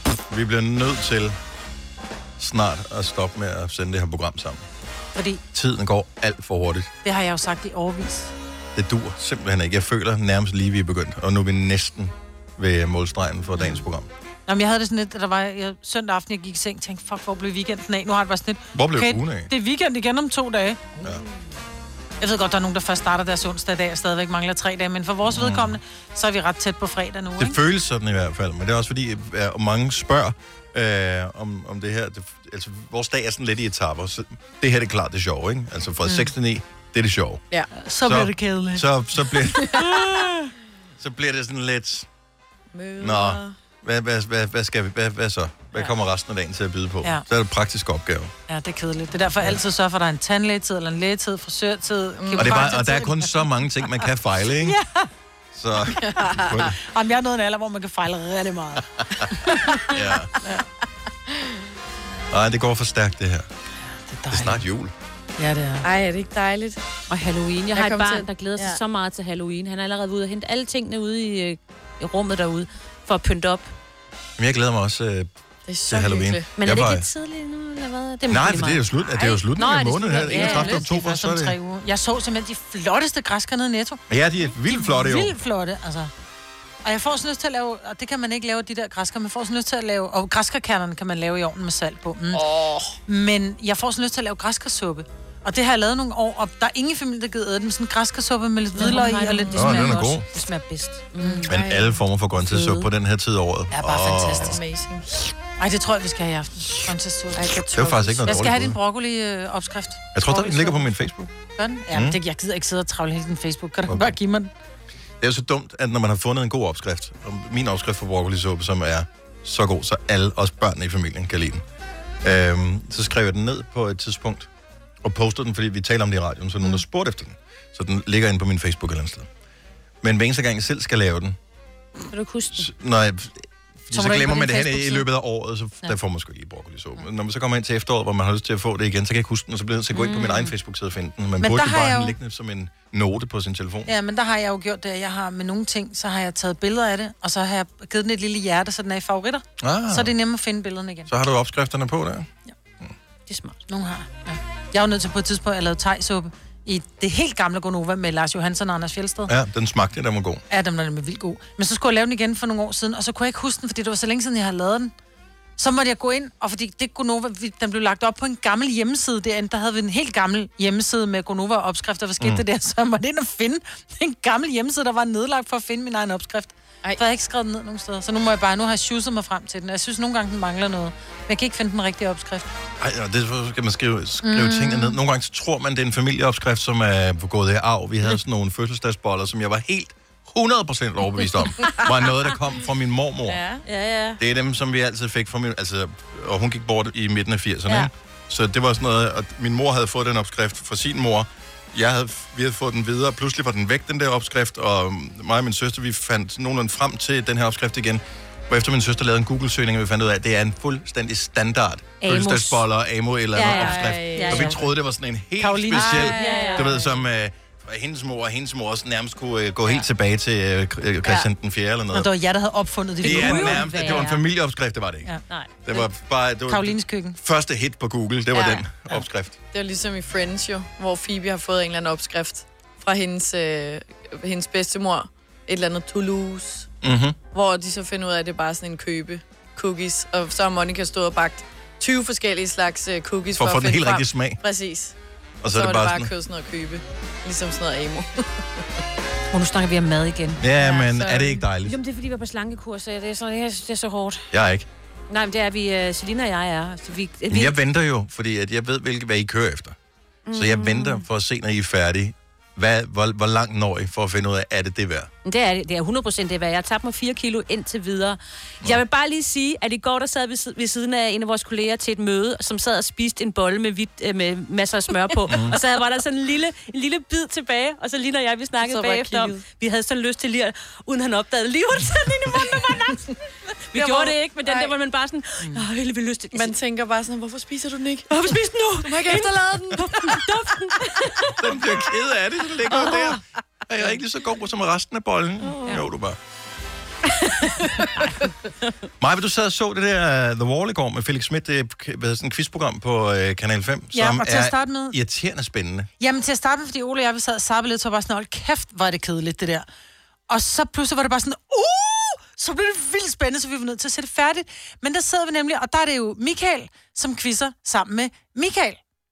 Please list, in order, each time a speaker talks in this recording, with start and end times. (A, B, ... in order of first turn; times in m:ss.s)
0:00.3-0:01.4 A
0:02.4-0:04.6 A
0:05.1-0:05.4 B
0:05.5-0:06.9 A
0:07.0-0:08.3 B
0:08.7-0:14.1 A
0:14.5-0:20.9 B
0:18.7-0:19.5 A
0:22.2-0:27.6 B
0:25.3-0:25.8 A
0:27.4-0:37.4 A
0:36.0-0:36.3 B
0:37.7-0:38.9 B
0:38.0-0:39.9 A
0:39.7-0:40.4 B
0:41.0-0:42.1 A
0:42.7-0:43.5 C
0:43.0-0:48.3 A
0:48.5-0:53.4 B
0:52.2-0:52.6 C
0:52.4-0:54.8 A
0:54.6-0:55.1 B
0:55.5-0:56.8 A
0:56.0-0:56.7 C
0:56.8-0:59.7 B
0:59.9-1:00.3 A
1:02.3-1:03.5 A
1:03.9-1:04.6 B
1:04.3-1:04.9 A
1:05.4-1:05.9 B
1:05.8-1:06.8 C
1:07.1-1:13.7 D
1:07.7-1:08.8 C
1:14.4-1:15.3 A
1:15.7-1:16.5 C
1:15.9-1:17.1 A
1:16.6-1:20.8 D
1:18.3-1:21.6 A
1:20.0-1:24.0 B
1:24.1-1:25.4 A
1:24.7-1:26.1 B
1:26.8-1:32.4 B
1:32.3-1:33.0 C
1:33.0-1:40.5 B
1:38.7-1:41.0 D
1:39.5-1:40.2 A
1:41.1-1:42.0 C
1:41.1-1:41.4 B
1:41.5-1:44.6 A
1:42.4-1:42.9 B
1:43.7-1:44.6 B
1:44.4-1:45.0 C
1:45.6-1:50.9 B
1:47.3-1:48.2 C
1:47.7-1:48.8 A
1:50.1-1:51.3 A
1:51.6-1:54.5 B
1:51.9-1:52.2 A
1:53.8-1:54.2 A
1:55.2-2:01.6 A
2:02.2-2:04.5 A
2:05.0-2:09.3 A
2:10.0-2:11.4 A
2:12.1-2:12.7 D
2:12.5-2:23.9 A
2:13.9-2:15.0 B
2:19.9-2:20.5 D
2:21.4-2:22.2 B
2:23.9-2:31.1 B
2:29.6-2:30.1 A
2:31.1-2:32.3 A
2:33.3-2:33.6 D
2:33.7-2:39.3 B
2:39.3-2:40.4 A
2:40.5-2:44.9 B
2:45.6-3:02.5 B
3:02.8-3:13.4 A
3:04.2-3:05.0 B
3:13.3-3:13.6 C
3:13.6-3:14.2 D
3:14.2-3:42.1 A
3:32.0-3:32.6 D
3:33.3-3:34.6 D
3:33.4-3:34.5 C
3:35.4-3:36.8 B
3:35.8-3:36.7 D
3:35.9-3:36.7 C
3:41.9-3:44.1 B
3:43.0-3:44.2 D
3:43.0-3:45.1 A
3:45.3-3:45.8 D
3:45.6-3:49.4 A
3:46.5-3:47.2 B
3:48.3-3:48.6 C
3:49.5-3:56.7 C
3:56.8-3:57.2 A
3:57.3-4:05.0 C
4:03.3-4:04.4 A
4:05.4-4:06.1 A
4:05.5-4:08.6 C
4:09.3-4:10.9 D
4:10.4-4:11.8 A
4:10.8-4:11.4 C
4:11.6-4:14.3 D
4:14.3-4:14.7 A
4:15.1-4:17.5 D
4:17.3-4:19.8 A
4:20.3-4:21.0 D
4:20.3-4:25.1 A
4:25.2-4:43.1 D
4:35.3-4:35.6 A
4:38.6-4:39.4 C
4:43.7-4:46.6 D
4:43.7-4:44.7 C
4:46.3-4:50.1 C
4:48.1-4:51.4 D
4:51.3-4:56.2 A
4:52.7-4:53.2 D
4:55.5-4:55.8 C
4:57.8-4:58.1 C
4:59.0-5:05.9 A
5:03.9-5:05.0 B
5:06.0-5:09.6 B
5:10.3-5:18.8 B